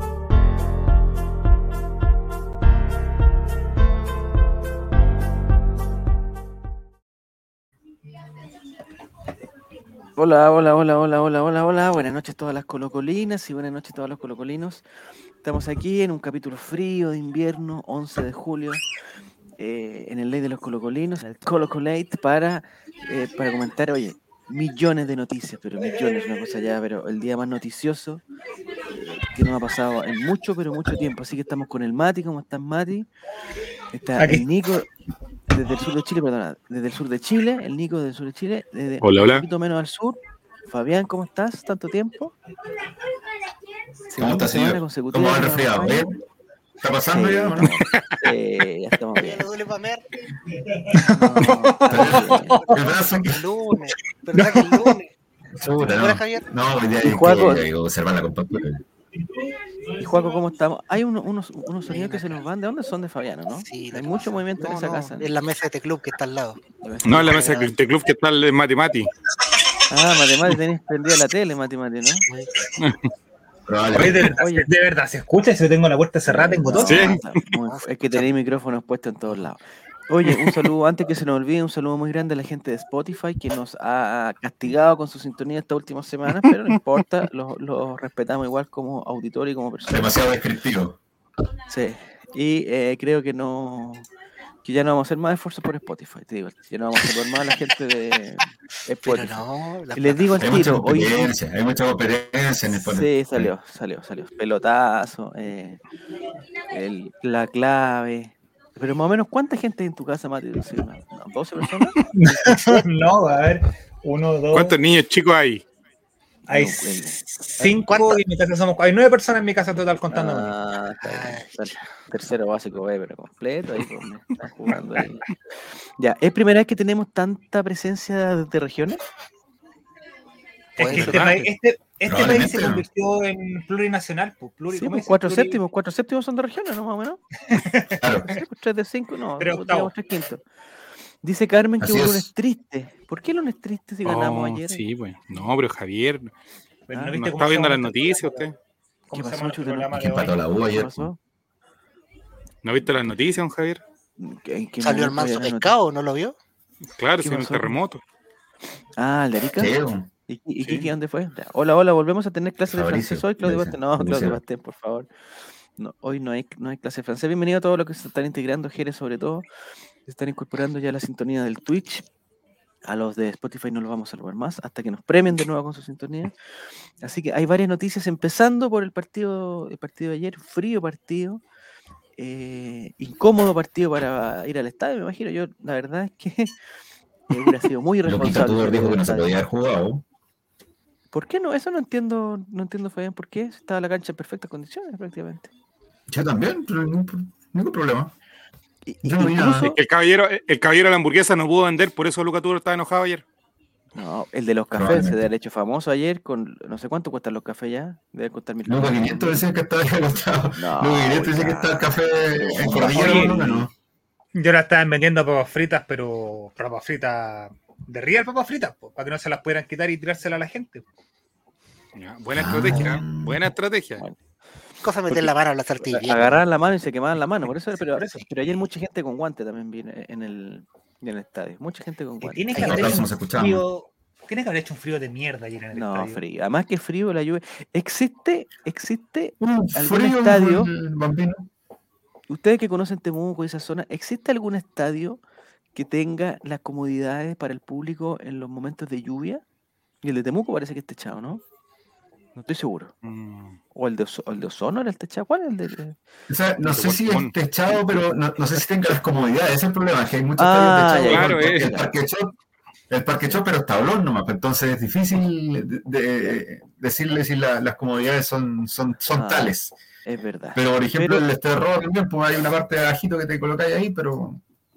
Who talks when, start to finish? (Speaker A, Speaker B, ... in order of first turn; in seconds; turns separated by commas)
Speaker A: 10.2-14.8, Speaker A: 15.4-18.8, Speaker A: 19.6-28.2, Speaker A: 28.9-33.1, Speaker A: 33.9-34.9, Speaker B: 34.2-34.5, Speaker A: 35.5-42.4, Speaker C: 39.0-39.5, Speaker A: 44.1-46.1, Speaker D: 44.2-46.2, Speaker D: 46.8-47.8, Speaker A: 47.1-49.5, Speaker C: 47.6-48.3, Speaker E: 49.1-50.0, Speaker B: 50.8-52.8, Speaker A: 51.0-52.6, Speaker D: 51.9-53.5, Speaker E: 52.6-55.1, Speaker B: 54.4-55.0, Speaker D: 55.5-58.8, Speaker E: 55.8-56.4, Speaker A: 57.0-57.6, Speaker A: 60.0-65.3, Speaker E: 61.9-62.4, Speaker E: 63.6-66.6, Speaker A: 66.8-67.6, Speaker C: 67.0-69.1, Speaker E: 67.2-67.7, Speaker A: 69.9-72.2, Speaker E: 72.2-72.5, Speaker C: 72.8-73.0, Speaker D: 73.7-74.3, Speaker B: 73.9-77.2, Speaker A: 74.3-74.7, Speaker A: 76.2-90.2, Speaker C: 76.8-77.2, Speaker E: 77.7-78.3, Speaker C: 80.3-80.7, Speaker D: 89.9-91.0, Speaker A: 91.7-94.1, Speaker A: 94.6-99.4, Speaker E: 99.0-100.6, Speaker A: 99.9-101.3, Speaker D: 100.4-103.5, Speaker A: 102.8-105.8, Speaker A: 106.7-112.8, Speaker B: 112.1-114.8, Speaker C: 114.5-115.6, Speaker A: 116.5-117.7, Speaker B: 116.5-120.5, Speaker E: 117.7-118.2, Speaker A: 120.1-125.3, Speaker E: 121.0-121.7, Speaker A: 126.0-129.0, Speaker B: 130.8-135.6, Speaker E: 130.8-131.5, Speaker C: 130.8-131.4, Speaker D: 132.1-132.8, Speaker A: 134.7-137.2, Speaker B: 137.5-138.0, Speaker D: 138.0-138.4, Speaker A: 138.2-140.4, Speaker B: 139.4-139.9, Speaker A: 141.2-144.8, Speaker D: 141.8-142.3, Speaker C: 144.0-146.3, Speaker B: 146.9-148.5, Speaker A: 146.9-147.2, Speaker C: 147.1-148.6, Speaker B: 149.1-150.3, Speaker A: 149.1-151.2, Speaker D: 149.9-151.1, Speaker C: 152.6-153.8, Speaker A: 154.2-155.8, Speaker E: 154.8-156.3, Speaker C: 157.0-158.0, Speaker A: 157.2-157.8, Speaker A: 159.0-159.8, Speaker D: 159.6-160.1, Speaker A: 160.3-165.1, Speaker C: 160.6-160.9, Speaker D: 162.7-164.4, Speaker A: 165.8-169.5, Speaker A: 170.1-172.1, Speaker A: 172.9-176.3, Speaker A: 177.0-181.4, Speaker A: 182.2-186.5, Speaker A: 187.3-189.4, Speaker D: 188.1-190.1, Speaker A: 191.1-195.5, Speaker D: 196.1-198.1, Speaker A: 198.8-199.8, Speaker D: 199.0-199.7, Speaker C: 199.4-203.2, Speaker A: 203.9-209.4, Speaker D: 204.8-205.2, Speaker D: 208.7-213.7, Speaker A: 210.6-213.7, Speaker B: 213.0-213.3, Speaker B: 214.3-220.8, Speaker C: 221.9-224.0, Speaker D: 222.3-223.5, Speaker E: 224.8-226.4, Speaker A: 225.1-233.1, Speaker B: 227.8-228.2, Speaker B: 232.2-236.2, Speaker D: 232.6-233.6, Speaker A: 235.7-240.7, Speaker D: 239.4-241.5, Speaker A: 242.3-245.2, Speaker A: 245.8-249.4, Speaker A: 250.0-251.4, Speaker A: 252.4-252.9, Speaker C: 253.0-253.6, Speaker A: 253.7-256.0, Speaker D: 256.3-262.4, Speaker C: 256.6-257.3, Speaker A: 260.4-261.9, Speaker C: 261.1-261.7, Speaker D: 262.9-269.7, Speaker A: 263.2-263.4, Speaker A: 269.1-269.6, Speaker A: 270.1-271.2, Speaker D: 270.6-274.4